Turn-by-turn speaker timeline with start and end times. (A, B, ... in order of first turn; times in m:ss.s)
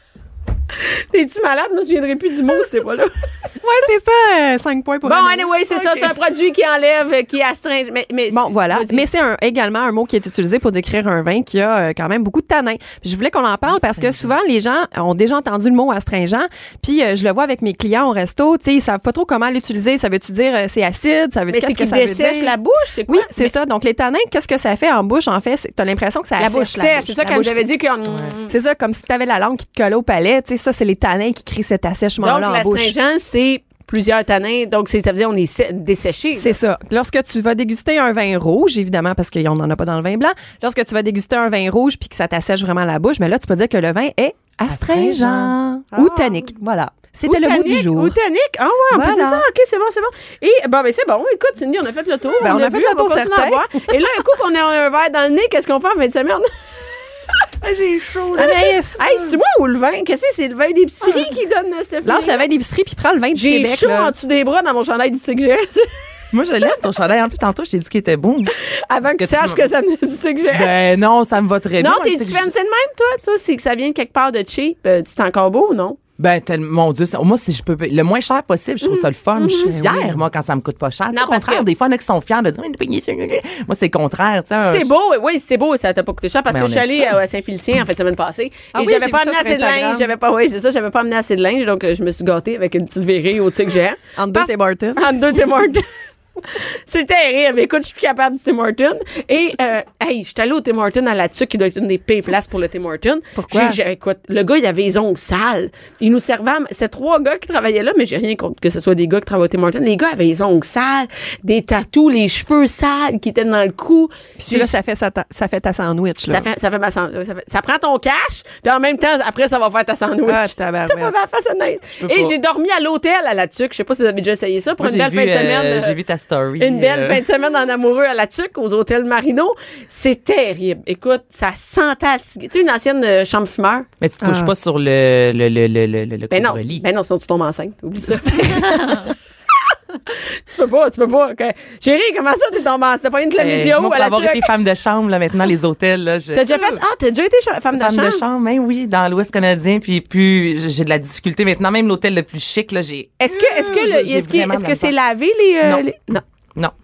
0:00.7-0:03.1 A
0:03.6-0:05.5 B
0:05.0-0:09.0 A
0:05.7-0:06.2 C
0:08.3-0:22.5 B
0:13.7-0:14.3 C
0:21.5-0:23.5 A
0:23.1-0:27.6 B
0:26.4-0:28.5 A
0:28.1-0:28.3 C
0:28.5-0:32.9 B
0:32.2-0:36.5 A
0:36.4-0:48.1 B
0:44.7-0:45.5 C
0:45.9-0:46.4 A
0:47.2-0:56.5 A
0:48.9-0:49.4 B
0:52.4-0:53.7 B
0:57.6-0:58.6 C
0:58.4-0:59.3 B
0:58.4-1:02.4 A
1:02.0-1:04.1 B
1:03.3-1:05.9 A
1:06.3-1:08.5 C
1:08.6-1:10.7 A
1:09.2-1:09.6 C
1:10.5-1:12.5 C
1:11.8-1:16.0 A
1:16.2-1:24.9 C
1:18.9-1:19.8 A
1:19.7-1:20.2 B
1:21.1-1:21.6 A
1:24.6-1:35.8 A
1:26.5-1:27.2 C
1:28.7-1:30.1 B
1:34.2-1:35.0 B
1:36.4-1:54.7 A
1:43.4-1:43.8 B
1:54.4-1:56.5 B
1:56.3-2:05.9 A
2:00.2-2:01.1 B
2:02.0-2:02.3 C
2:04.8-2:07.2 C
2:06.6-2:13.9 A
2:14.0-2:16.8 C
2:14.2-2:14.5 B
2:16.3-2:19.1 A
2:20.1-2:24.5 A
2:23.4-2:26.8 C
2:26.3-2:28.2 A
2:27.7-2:34.9 C
2:33.2-2:36.2 A